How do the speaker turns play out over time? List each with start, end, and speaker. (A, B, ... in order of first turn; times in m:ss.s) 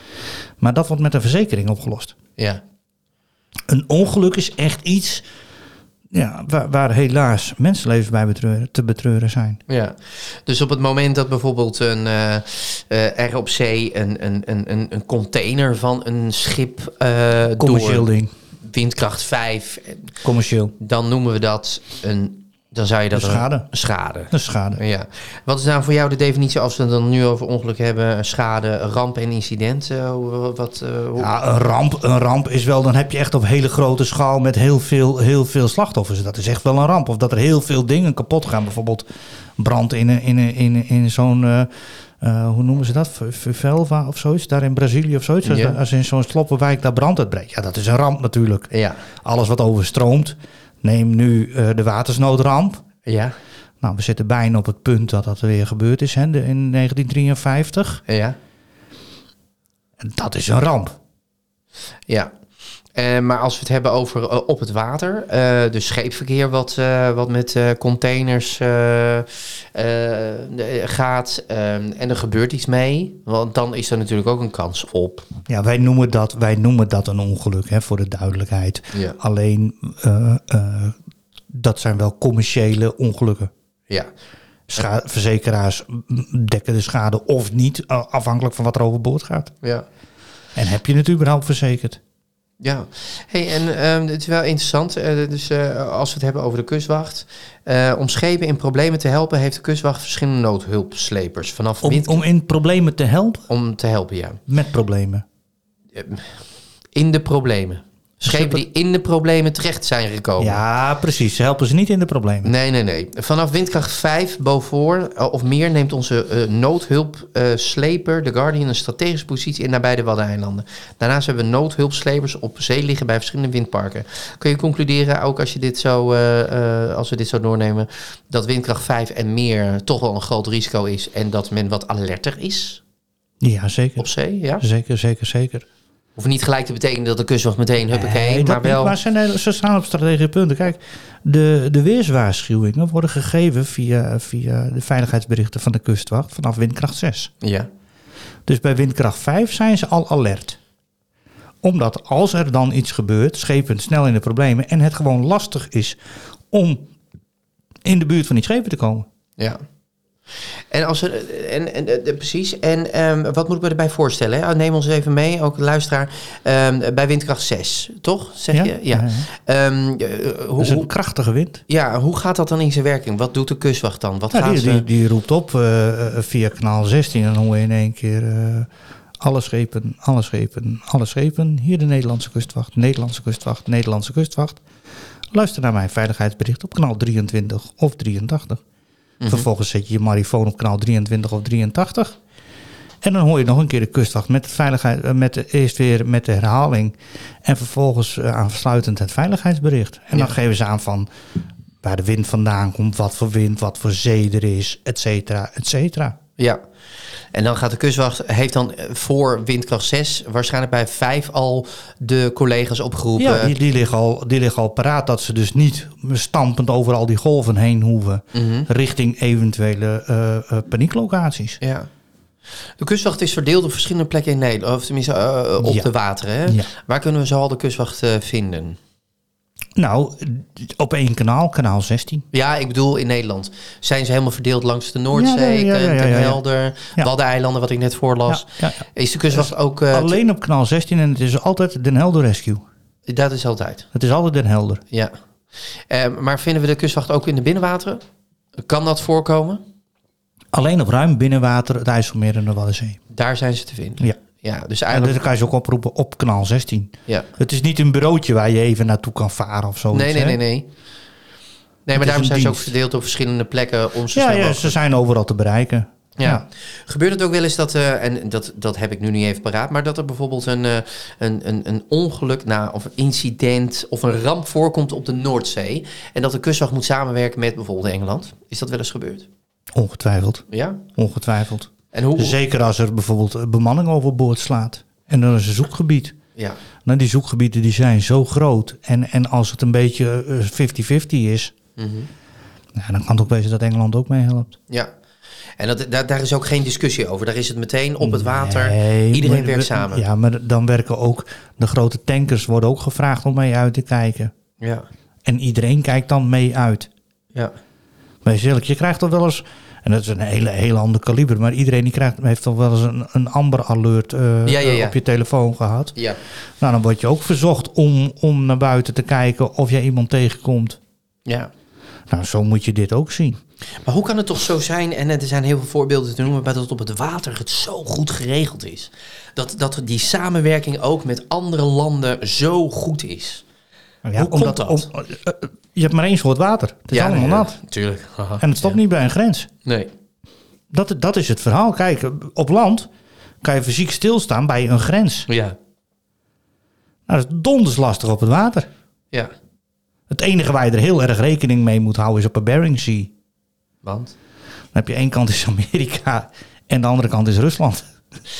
0:00.6-0:02.1 A
0:03.7-0:05.2 A
0:06.1-0:09.6 A
0:09.7-0:18.0 B
0:17.6-0:18.3 A
0:18.6-0:20.1 B
0:20.2-0:20.7 A
0:20.8-0:31.3 B
0:23.1-0:23.7 A
0:24.3-0:24.8 A
0:31.2-0:39.0 A
0:39.6-0:48.7 A
0:45.4-0:45.8 B
0:48.7-0:49.0 B
0:49.2-0:52.8 A
0:53.0-0:53.3 B
0:53.8-0:58.0 A
0:58.1-0:58.4 B
1:00.0-1:00.9 A
1:02.9-1:15.2 B
1:15.5-1:21.0 A
1:21.5-1:23.5 A
1:24.7-1:29.5 A
1:30.6-1:32.0 A
1:32.6-1:42.2 B
1:41.8-1:43.5 A
1:43.5-1:44.4 B
1:44.5-1:45.2 A
1:45.9-1:46.4 B
1:46.9-1:50.6 B
1:48.2-1:48.6 A
1:50.4-1:52.5 A
1:52.4-2:12.8 B
2:13.4-2:14.1 A
2:14.0-2:14.6 B
2:14.6-2:15.6 A
2:16.2-2:19.0 B
2:17.9-2:27.3 A
2:27.4-2:27.7 B
2:28.5-2:30.6 A
2:31.6-2:36.0 A
2:36.5-2:36.9 A
2:37.8-2:39.0 A
2:40.7-2:50.9 B
2:48.5-2:49.3 A
2:50.6-2:51.6 A
2:51.7-2:54.8 B
2:54.3-2:58.7 A
2:59.2-3:04.6 A
3:05.3-3:08.6 A
3:09.2-3:09.5 B
3:09.3-3:12.2 A
3:13.0-3:21.1 A
3:21.8-3:26.1 A
3:27.3-3:33.5 B
3:33.2-3:41.6 A
3:38.3-3:38.7 B
3:41.6-3:41.9 B
3:42.8-3:48.8 B
3:45.6-3:45.9 A
3:49.8-3:52.2 A
3:52.3-4:00.2 B
3:55.1-3:56.4 A
3:58.3-4:02.6 A
4:03.1-4:03.8 B
4:03.9-4:04.8 A
4:05.9-4:08.0 B
4:08.6-4:09.6 B
4:10.5-4:13.0 A
4:13.1-4:15.2 B
4:14.9-4:20.4 A
4:19.9-4:20.7 B
4:21.8-4:24.8 B
4:22.0-4:22.7 A
4:24.1-4:26.4 A
4:26.2-4:39.3 B
4:39.7-4:40.4 A
4:40.5-4:40.8 B
4:41.0-4:46.1 A
4:41.9-4:42.4 B
4:46.8-4:51.5 A
4:51.8-4:52.1 B
4:52.7-4:54.5 A
4:55.6-5:00.0 B
4:58.0-5:04.3 A
5:05.2-5:06.9 A
5:08.2-5:16.0 A
5:14.4-5:15.0 B
5:16.6-5:20.8 A
5:22.1-5:23.4 A
5:23.8-5:33.4 B
5:34.0-5:37.6 A
5:34.2-5:34.9 B
5:36.9-5:38.8 B
5:38.4-5:39.5 A
5:39.6-5:39.9 B
5:40.7-5:42.9 A
5:43.4-5:45.3 A
5:45.3-5:45.6 B
5:47.1-5:48.7 A
5:50.1-5:53.1 A
5:53.8-5:54.1 B
5:54.7-5:57.9 A